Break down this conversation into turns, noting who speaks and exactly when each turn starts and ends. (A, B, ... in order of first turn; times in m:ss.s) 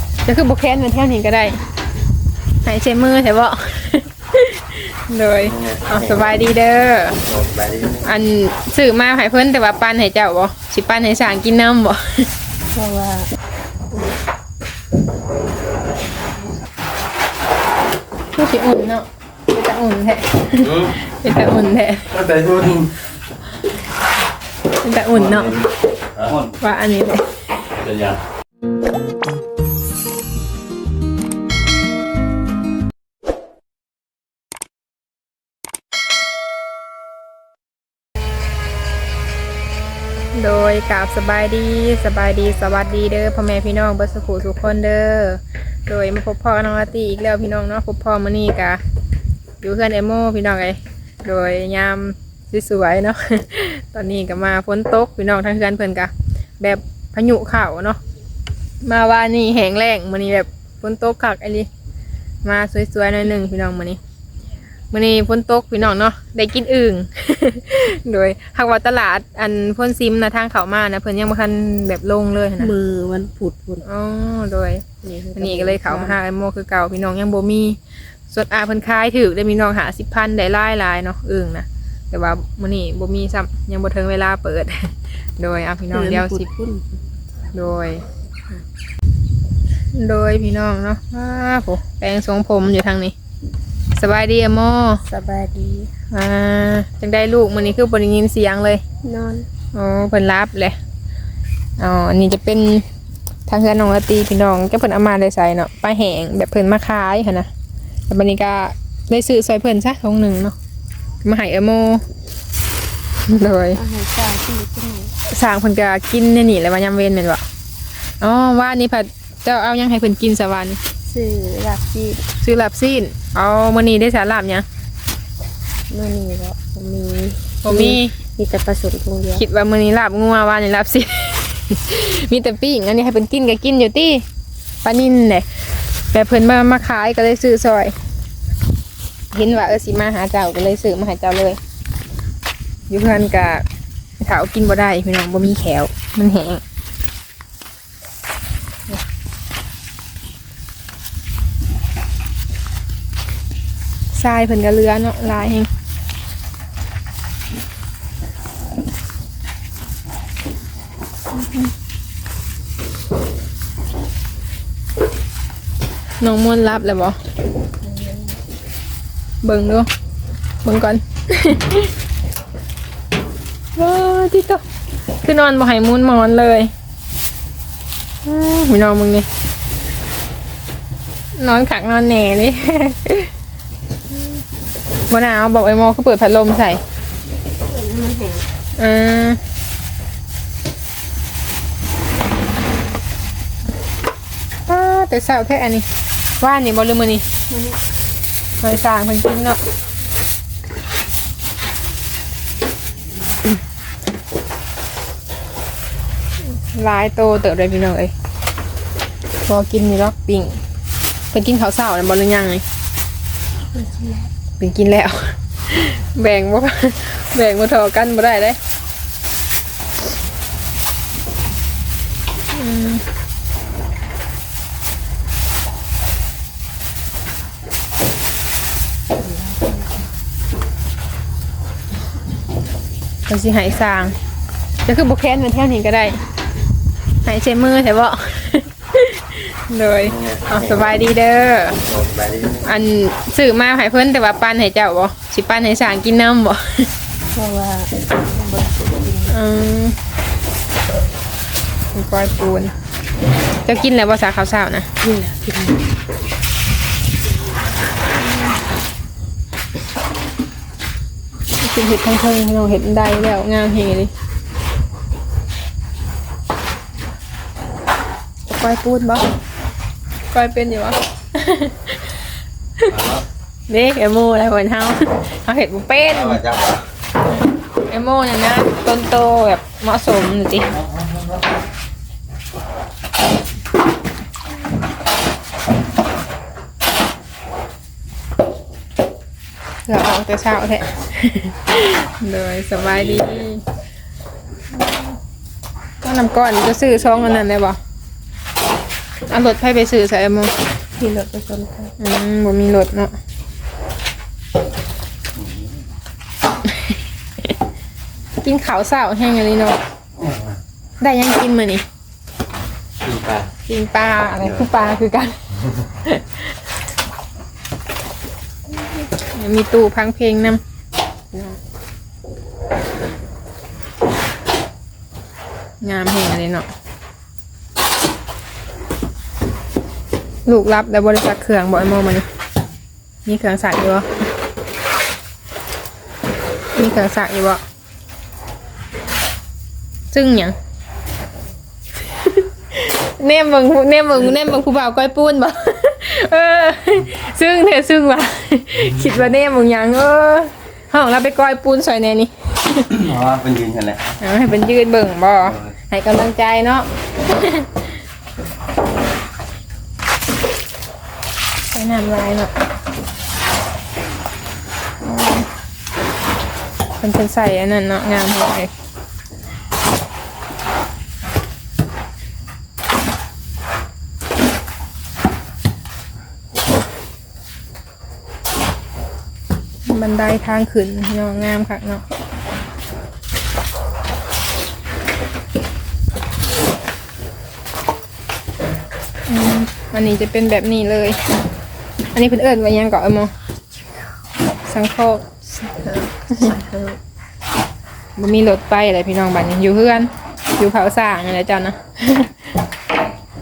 0:00.2-0:01.6 A
0:02.6-0:07.2 A
0:05.4-0:06.3 B
0:07.2-0:08.1 B
0:08.0-0:12.3 A
0:12.8-0:13.3 C
0:18.4-0:22.1 A
0:20.6-0:20.9 B
0:22.1-0:22.9 B
0:24.8-0:25.5 A
0:25.1-0:26.6 B
0:26.6-0:27.3 A
0:27.8-0:28.2 B
0:40.3-0:48.8 A
0:49.6-0:58.0 A
0:58.8-1:01.7 A
1:02.4-1:04.0 A
1:04.9-1:12.7 A
1:12.6-1:13.8 C
1:13.8-1:14.8 A
1:15.0-1:16.2 C
1:15.4-1:17.8 A
1:18.3-1:26.5 A
1:25.9-1:26.8 C
1:27.5-1:28.0 A
1:29.9-1:33.1 A
1:34.0-1:35.0 A
1:35.1-1:35.9 C
1:36.1-1:38.8 A
1:39.0-1:39.4 C
1:39.7-1:40.8 A
1:41.8-1:42.9 A
1:43.5-1:47.5 A
1:48.1-1:50.6 A
1:51.2-1:52.0 A
1:53.3-1:53.8 A
1:53.7-1:55.1 C
1:55.2-1:57.4 A
1:58.2-2:00.8 A
2:01.1-2:02.2 C
2:02.4-2:04.7 A
2:05.9-2:09.4 C
2:07.6-2:08.2 A
2:09.4-2:14.2 A
2:14.8-2:15.5 A
2:16.1-2:18.0 A
2:19.3-2:21.6 A
2:22.9-2:23.6 A
2:24.2-2:26.6 A
2:34.1-2:35.7 A
2:46.2-2:47.2 A
2:47.8-2:48.4 C
2:49.4-2:49.9 A
2:50.6-2:51.9 A
2:53.8-2:54.6 A
2:55.2-2:56.7 A
2:58.2-2:59.3 A
3:01.4-3:03.3 A
3:05.1-3:06.8 A
3:07.6-3:08.4 C
3:08.8-3:09.4 A
3:14.7-3:15.9 A
3:16.4-3:17.2 A
3:17.5-3:17.8 C
3:18.6-3:19.6 A
3:26.7-3:28.1 A
3:29.5-3:30.6 A
3:31.3-3:32.6 A
3:33.7-3:34.3 C
3:34.6-3:38.6 A
3:42.5-3:43.0 A
3:49.2-3:49.8 C
3:53.3-3:54.2 A
3:54.8-3:56.2 A
3:57.2-4:01.8 A
4:00.0-4:00.9 B
4:01.8-4:02.7 B
4:02.6-4:06.9 A
4:07.3-4:09.3 C
4:09.3-4:10.0 A
4:11.9-4:12.7 A
4:13.6-4:14.9 A
4:15.0-4:15.8 C
4:18.2-4:18.6 A
4:21.6-4:24.1 A
4:28.5-4:29.2 A
4:30.3-4:32.1 A
4:32.9-4:33.2 B
4:33.7-4:36.4 A
4:36.1-4:36.8 B
4:37.9-4:40.7 A
4:40.8-4:41.2 B
4:49.9-4:53.6 A
4:52.9-4:53.4 B
4:56.0-4:57.8 A
4:59.3-5:00.5 A
5:01.0-5:01.9 C
5:02.0-5:03.2 A
5:05.4-5:05.8 B
5:08.4-5:09.8 A
5:10.2-5:10.6 B
5:11.0-5:11.8 A
5:13.0-5:13.5 B
5:13.7-5:15.4 A
5:14.4-5:14.7 B
5:16.0-5:16.4 A
5:18.7-5:20.6 A
5:21.3-5:21.6 A
5:25.8-5:26.7 A
5:30.4-5:32.3 A
5:33.2-5:34.1 A
5:36.8-5:37.6 A
5:40.1-5:40.6 A
5:42.7-5:52.9 A
5:48.8-5:49.2 B
5:52.9-5:54.0 B
5:54.2-5:57.9 A
5:55.5-5:55.7 B
6:01.7-6:02.5 A
6:05.0-6:05.5 A
6:07.0-6:08.7 A
6:19.9-6:22.0 A
6:29.3-6:31.2 A
6:32.1-6:33.3 A
6:34.6-6:35.4 A
6:35.8-6:37.0 C
6:38.2-6:42.4 A